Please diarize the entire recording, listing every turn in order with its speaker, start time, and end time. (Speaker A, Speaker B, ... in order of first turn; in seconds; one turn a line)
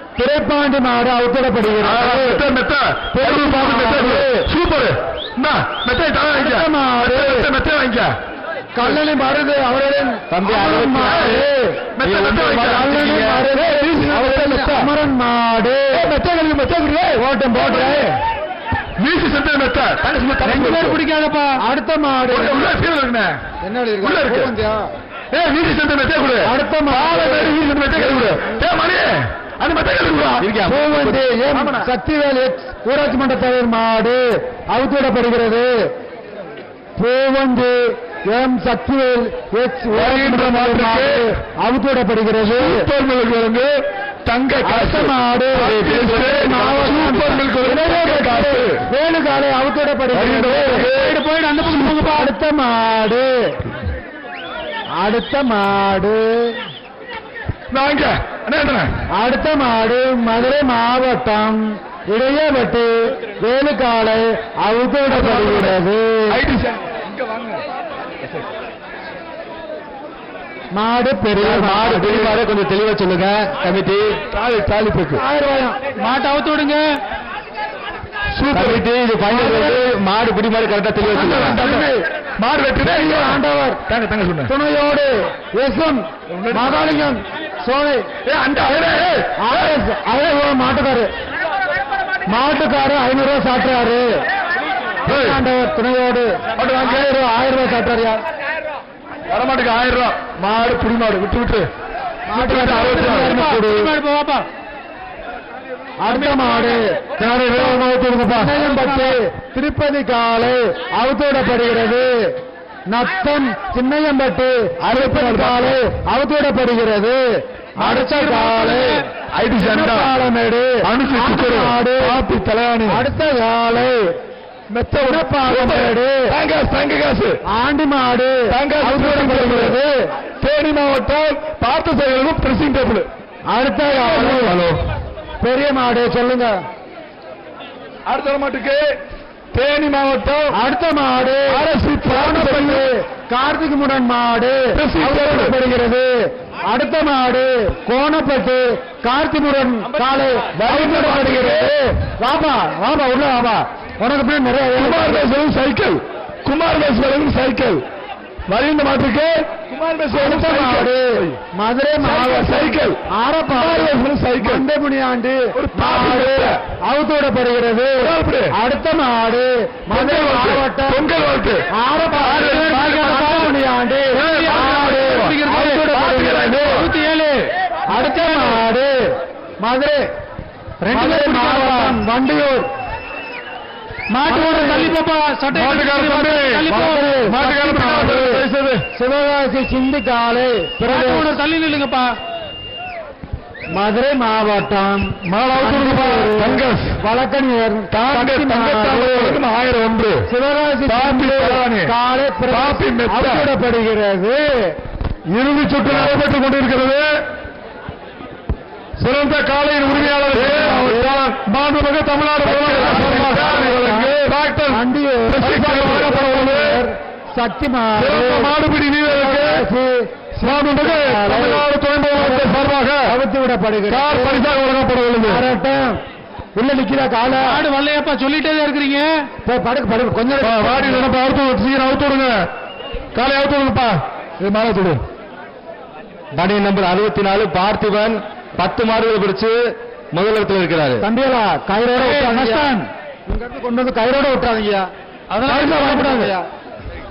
Speaker A: 0.2-2.5
Speaker B: 1.8-8.1
Speaker A: 3.1-4.5
Speaker A: 6.3-7.5
Speaker A: 8.8-11.9
Speaker C: 10.3-11.4
Speaker B: 11.0-11.4
Speaker B: 12.0-14.9
Speaker C: 12.0-12.5
Speaker A: 12.5-16.1
Speaker B: 15.9-18.1
Speaker A: 17.1-18.1
Speaker B: 19.0-21.0
Speaker D: 20.4-21.5
Speaker A: 21.6-22.6
Speaker B: 22.3-23.4
Speaker A: 23.6-24.9
Speaker B: 24.0-24.5
Speaker B: 25.3-30.6
Speaker A: 26.4-27.6
Speaker C: 30.4-31.1
Speaker A: 30.6-35.7
Speaker B: 31.5-31.9
Speaker A: 37.0-42.9
Speaker B: 39.9-41.4
Speaker B: 42.4-43.7
Speaker B: 44.2-48.8
Speaker A: 44.6-50.9
Speaker B: 50.1-51.2
Speaker D: 50.9-52.3
Speaker A: 51.9-53.5
Speaker A: 55.0-56.6
Speaker B: 57.7-58.9
Speaker A: 59.1-66.4
Speaker B: 65.1-65.8
Speaker B: 66.3-67.6
Speaker A: 70.7-72.3
Speaker C: 71.4-74.2
Speaker B: 74.3-75.2
Speaker A: 75.1-75.8
Speaker D: 76.0-76.8
Speaker B: 78.3-78.8
Speaker C: 78.5-81.6
Speaker A: 79.3-79.8
Speaker B: 81.1-84.5
Speaker A: 81.1-82.0
Speaker A: 82.8-83.8
Speaker A: 84.5-88.1
Speaker B: 86.3-87.1
Speaker B: 88.2-89.8
Speaker A: 89.3-91.1
Speaker A: 92.3-94.1
Speaker A: 95.0-98.2
Speaker B: 95.0-95.4
Speaker B: 96.6-97.1
Speaker B: 99.3-101.7
Speaker A: 102.3-103.9
Speaker B: 102.3-103.4
Speaker D: 102.7-104.4
Speaker A: 106.0-112.3
Speaker D: 106.1-106.8
Speaker D: 107.5-109.2
Speaker A: 112.9-119.0
Speaker B: 114.8-115.8
Speaker D: 117.8-119.0
Speaker B: 118.1-120.2
Speaker A: 119.5-122.2
Speaker B: 120.8-123.0
Speaker A: 122.9-124.1
Speaker B: 124.7-127.4
Speaker A: 125.0-126.3
Speaker A: 127.5-130.0
Speaker B: 128.5-129.8
Speaker B: 130.4-133.1
Speaker A: 133.5-134.6
Speaker B: 133.9-134.8
Speaker A: 135.4-136.5
Speaker B: 138.1-138.9
Speaker B: 139.5-140.5
Speaker A: 140.5-155.3
Speaker B: 141.5-142.9
Speaker B: 144.7-145.5
Speaker B: 150.6-151.7
Speaker B: 154.8-157.8
Speaker B: 158.5-161.4
Speaker A: 160.1-171.0
Speaker B: 162.0-164.6
Speaker B: 165.6-166.6
Speaker B: 168.0-168.5
Speaker B: 169.9-173.3
Speaker A: 171.7-176.9
Speaker D: 172.2-173.5
Speaker B: 174.1-175.4
Speaker D: 174.2-175.8
Speaker B: 175.9-176.9
Speaker D: 176.6-178.6
Speaker A: 177.9-180.0
Speaker D: 180.8-182.0
Speaker A: 180.9-182.7
Speaker D: 184.1-187.0
Speaker A: 184.2-184.9
Speaker B: 185.5-186.6
Speaker A: 186.6-191.3
Speaker B: 187.2-188.8
Speaker D: 190.8-192.1
Speaker A: 193.7-199.4
Speaker B: 195.2-196.9
Speaker B: 197.9-200.2
Speaker A: 200.3-204.7
Speaker B: 200.8-201.9
Speaker B: 202.5-203.5
Speaker B: 205.3-207.1
Speaker B: 209.0-216.8
Speaker A: 209.9-211.2
Speaker A: 212.5-214.1
Speaker A: 214.7-218.6
Speaker B: 217.9-219.7
Speaker A: 219.1-224.5
Speaker B: 220.4-223.1
Speaker B: 223.9-225.4
Speaker A: 225.2-226.0
Speaker A: 226.5-227.6
Speaker D: 227.4-229.2
Speaker A: 229.4-231.1
Speaker B: 230.4-232.5
Speaker B: 233.1-235.0
Speaker C: 236.3-241.0
Speaker A: 241.0-242.7
Speaker D: 241.9-242.8
Speaker A: 243.3-244.9
Speaker D: 245.3-246.3
Speaker A: 245.4-246.4